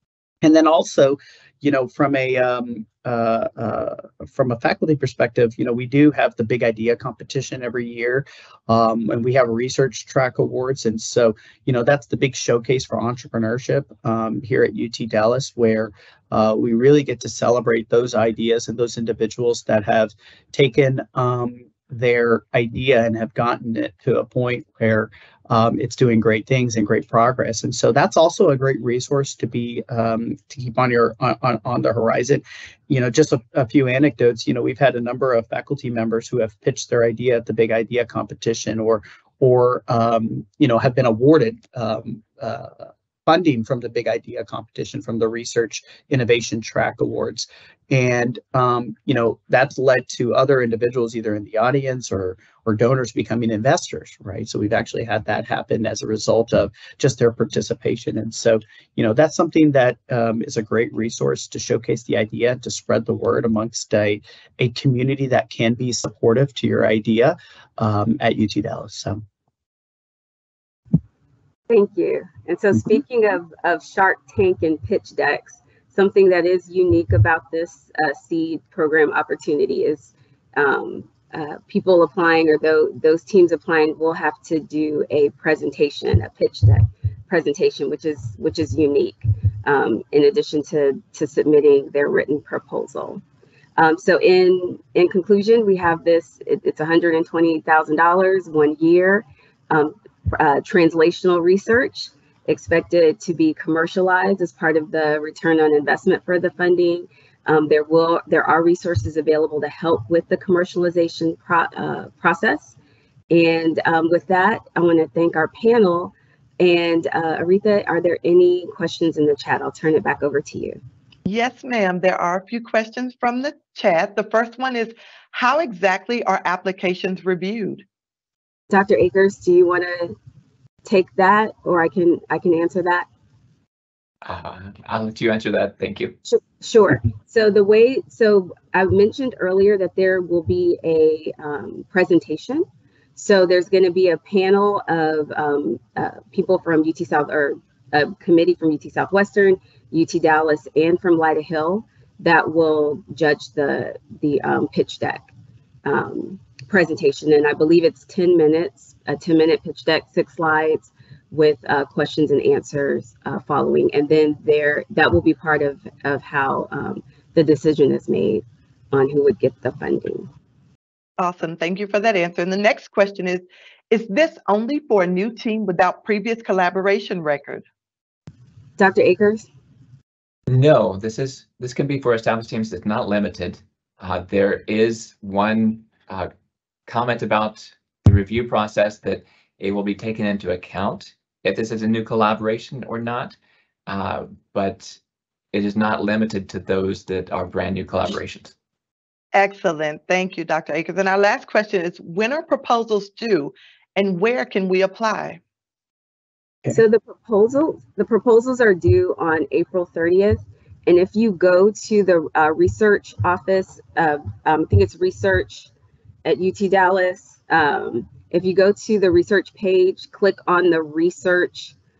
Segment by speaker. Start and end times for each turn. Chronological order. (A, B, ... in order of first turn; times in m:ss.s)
0:00.4-1:09.2 A
1:11.7-1:33.2 B
1:33.8-1:52.7 B
1:53.3-2:00.8 B
2:01.2-2:07.8 C
2:08.7-2:10.2 B
2:10.8-2:13.1 B
2:14.2-2:16.1 D
2:16.2-2:35.3 B
2:35.8-2:50.3 B
2:51.2-2:57.6 C
2:58.8-2:59.5 B
3:00.5-3:06.3 D
3:06.9-3:13.4 D
3:13.9-3:15.0 D
3:15.5-3:18.5 D
3:19.3-3:25.4 C
3:26.7-3:35.7 B
3:36.2-3:41.7 B